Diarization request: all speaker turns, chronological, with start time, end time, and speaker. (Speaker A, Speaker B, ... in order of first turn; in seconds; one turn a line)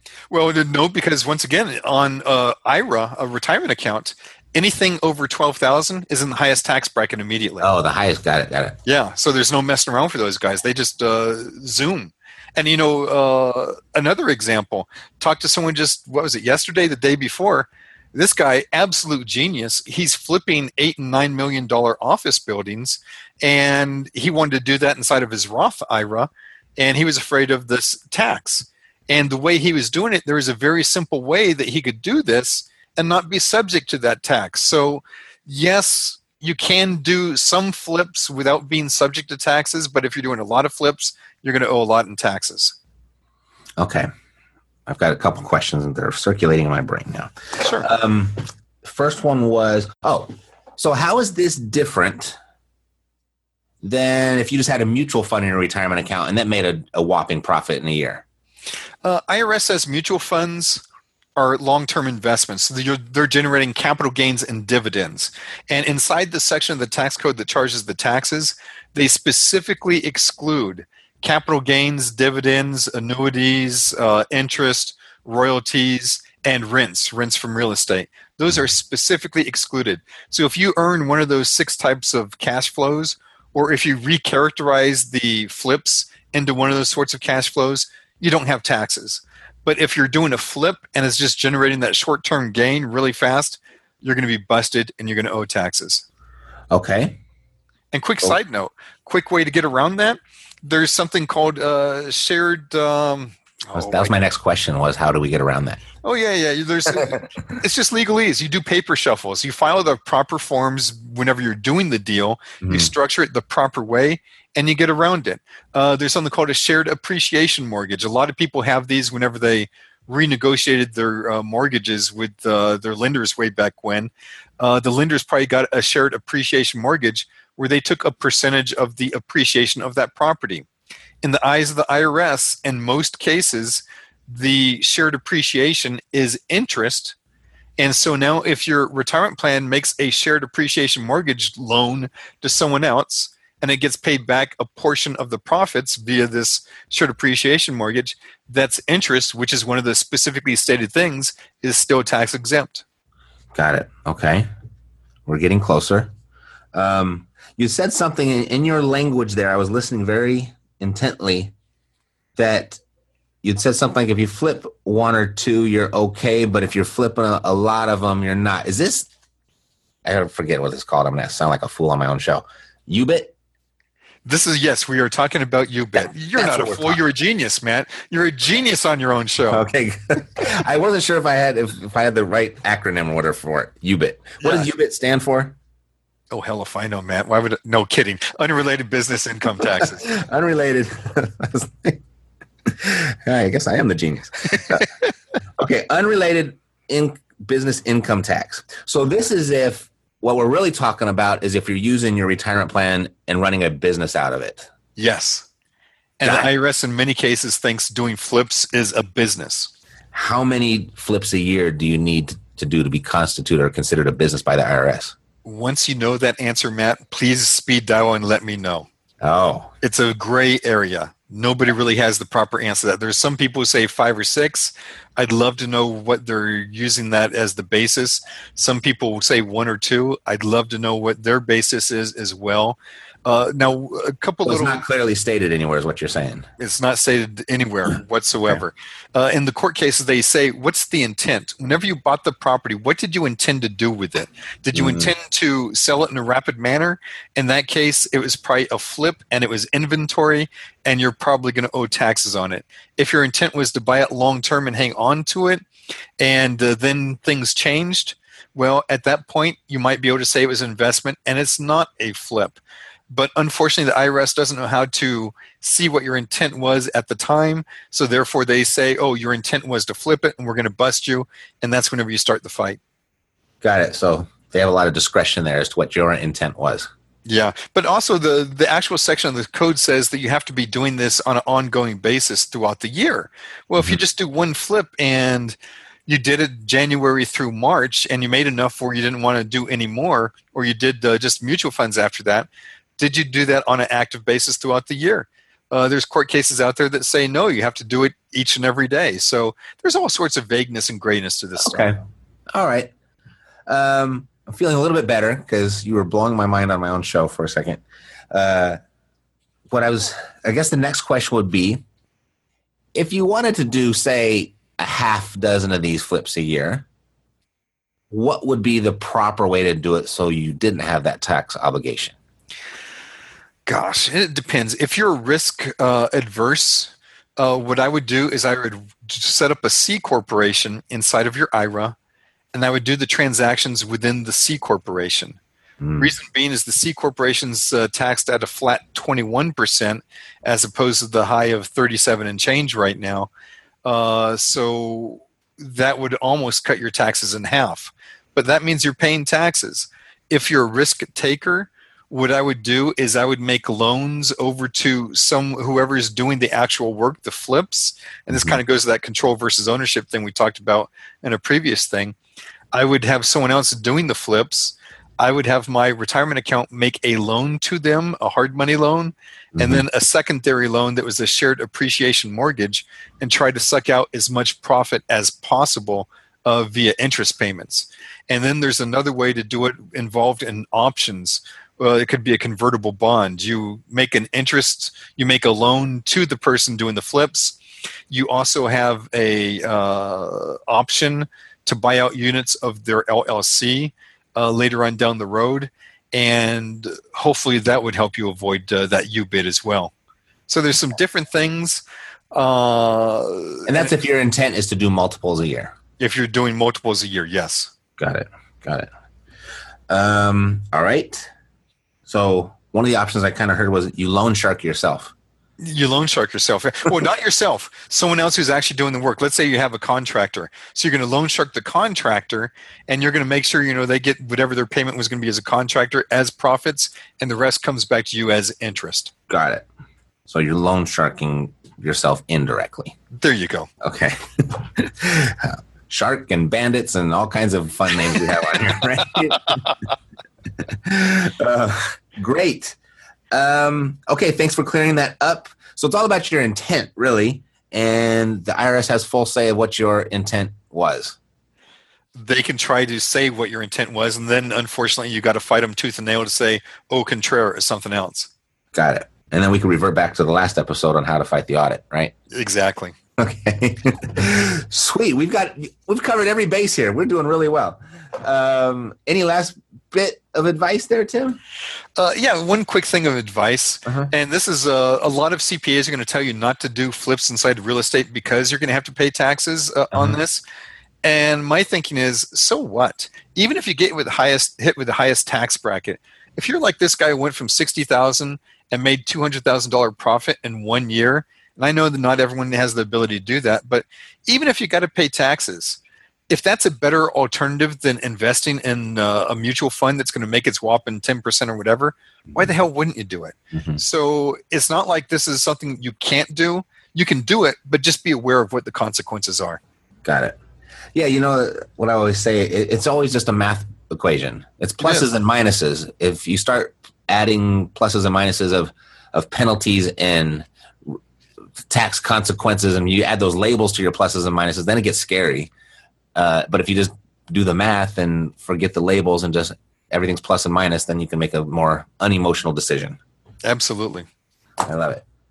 Speaker A: 0.3-7.7
Speaker B: 7.6-8.8
Speaker A: 8.8-42.7
Speaker B: 43.8-44.1
Speaker B: 44.9-52.4
Speaker A: 47.6-47.9
Speaker B: 53.8-58.2
Speaker A: 59.0-60.8
Speaker A: 61.4-96.0
Speaker B: 96.7-97.2
Speaker A: 97.9-104.2
Speaker B: 103.7-105.8
Speaker A: 106.0-130.6
Speaker B: 112.6-112.9
Speaker A: 131.2-137.2
Speaker A: 137.8-152.8
Speaker B: 153.5-154.5
Speaker B: 155.2-156.1
Speaker B: 156.7-161.5
Speaker B: 162.3-162.8
Speaker B: 163.4-169.1
Speaker B: 170.0-173.3
Speaker A: 174.2-179.6
Speaker B: 175.9-177.0
Speaker B: 179.5-185.6
Speaker A: 184.4-184.7
Speaker A: 186.3-190.0
Speaker B: 189.6-192.0
Speaker B: 192.7-194.9
Speaker B: 195.6-204.7
Speaker A: 205.0-205.5
Speaker A: 206.2-209.7
Speaker B: 206.2-206.5
Speaker B: 210.1-215.1
Speaker A: 215.4-218.9
Speaker B: 219.2-219.7
Speaker A: 219.8-234.8
Speaker B: 234.4-236.5
Speaker A: 236.6-255.6
Speaker B: 244.7-245.1
Speaker A: 256.2-262.6
Speaker A: 263.1-272.8
Speaker B: 273.6-276.9
Speaker A: 277.2-301.9
Speaker B: 301.6-302.0
Speaker B: 302.5-302.9
Speaker B: 303.7-308.8
Speaker B: 309.7-311.8
Speaker B: 312.9-316.9
Speaker B: 318.1-322.1
Speaker A: 323.6-331.9
Speaker A: 332.5-335.4
Speaker B: 335.8-336.1
Speaker A: 336.0-343.3
Speaker A: 343.8-362.1
Speaker B: 358.3-358.6
Speaker A: 362.7-387.6
Speaker B: 369.6-369.8
Speaker A: 388.1-399.9
Speaker A: 400.5-401.8
Speaker A: 402.3-403.9
Speaker B: 403.7-405.7
Speaker A: 406.0-407.7
Speaker B: 408.0-408.9
Speaker B: 409.9-411.3
Speaker B: 412.1-415.1
Speaker A: 415.6-429.1
Speaker B: 429.3-429.7
Speaker B: 430.3-432.9
Speaker A: 433.1-433.7
Speaker B: 433.8-439.6
Speaker B: 440.6-442.8
Speaker B: 443.3-451.1
Speaker A: 452.1-458.3
Speaker B: 458.7-462.1
Speaker A: 462.3-462.9
Speaker B: 463.2-471.4
Speaker A: 472.0-480.4
Speaker B: 473.9-474.1
Speaker B: 479.9-480.2
Speaker A: 481.0-495.8
Speaker A: 496.3-509.6
Speaker B: 503.5-503.8
Speaker B: 510.0-510.4
Speaker B: 510.9-521.0
Speaker B: 521.7-525.5
Speaker B: 526.1-533.0
Speaker A: 533.4-534.0
Speaker B: 534.6-535.0